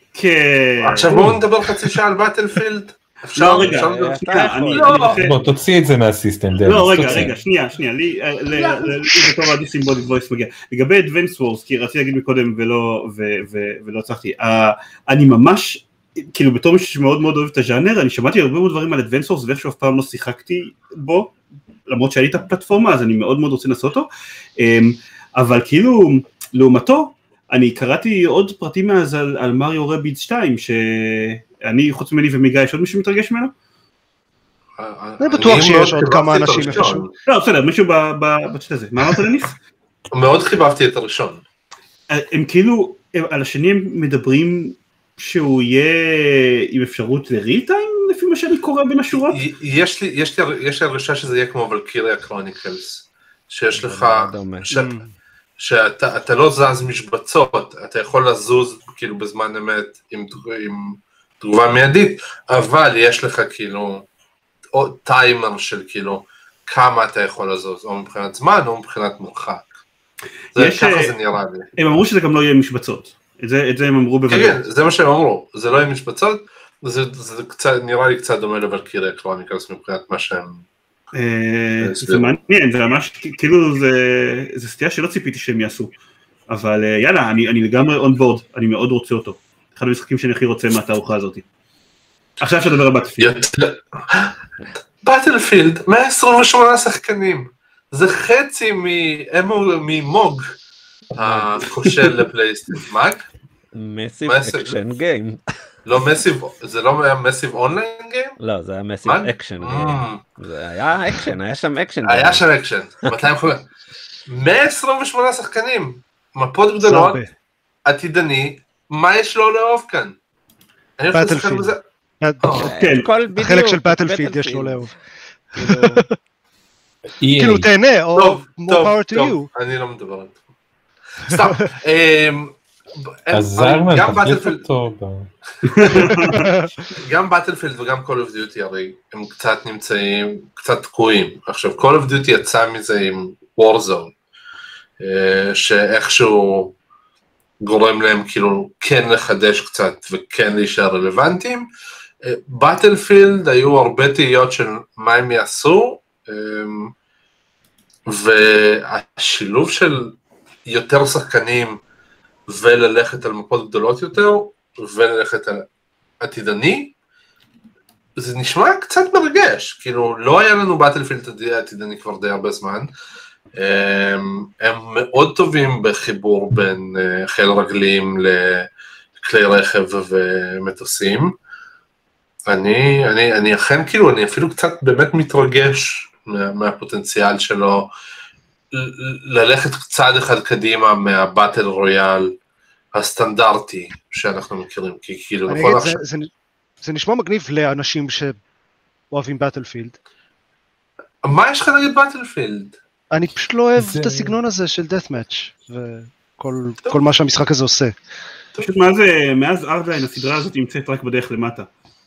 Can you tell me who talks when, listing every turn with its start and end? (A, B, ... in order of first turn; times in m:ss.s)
0:00.1-0:01.3 A
0:00.8-0:05.3 B
0:03.4-0:05.4 A
0:03.5-0:05.2 C
0:05.2-0:07.3 D
0:06.6-0:21.3 A
0:08.6-0:09.1 B
0:21.9-0:24.1 A
0:24.6-0:33.5 A
0:34.8-0:37.1 B
0:35.2-0:37.0 E
0:37.2-0:39.6 A
0:40.1-0:41.4 B
0:42.1-0:49.4 A
0:49.1-0:54.9 B
0:53.7-0:54.7 C
0:54.7-0:55.1 E
0:55.6-1:04.0 B
1:04.7-1:09.6 B
1:10.5-1:11.6 B
1:10.6-1:11.1 A
1:11.8-1:14.6 A
1:14.3-1:20.6 B
1:21.1-1:25.9 A
1:21.8-1:22.3 B
1:26.5-1:31.4 A
1:32.4-1:33.3 A
1:33.2-1:34.4 B
1:35.0-1:40.4 B
1:41.1-1:43.2 B
1:41.2-1:41.5 C
1:43.7-1:45.4 C
1:44.2-1:44.8 B
1:45.8-1:48.4 B
1:48.4-1:52.4 C
1:49.0-1:50.2 B
1:52.0-1:53.7 B
1:54.3-1:57.3 B
1:56.8-1:57.2 E
1:57.8-2:00.2 B
2:01.0-2:01.8 B
2:01.1-2:02.7 E
2:02.4-2:02.7 B
2:02.5-2:04.9 C
2:02.7-2:03.1 A
2:03.4-2:04.9 E
2:05.5-2:06.1 E
2:07.2-2:07.7 D
2:07.4-2:09.5 E
2:08.1-2:10.4 B
2:11.2-2:14.6 B
2:13.3-2:15.3 D
2:15.6-2:16.5 A
2:15.8-2:16.3 B
2:16.2-2:16.7 E
2:16.9-2:24.1 B
2:25.0-2:26.8 B
2:27.6-2:31.6 B
2:32.2-2:36.9 B
2:38.1-2:40.1 B
2:40.7-2:41.8 B
2:42.5-2:45.6 B
2:46.2-2:47.0 B
2:48.2-2:52.9 B
2:53.6-3:01.3 B
3:02.5-3:07.9 B
3:08.7-3:12.3 B
3:12.9-3:16.0 B
3:15.5-3:16.3 E
3:16.8-3:18.3 E
3:19.1-3:20.0 E
3:21.2-3:22.8 B
3:23.1-3:27.9 E
3:23.8-3:24.4 D
3:28.6-3:31.7 A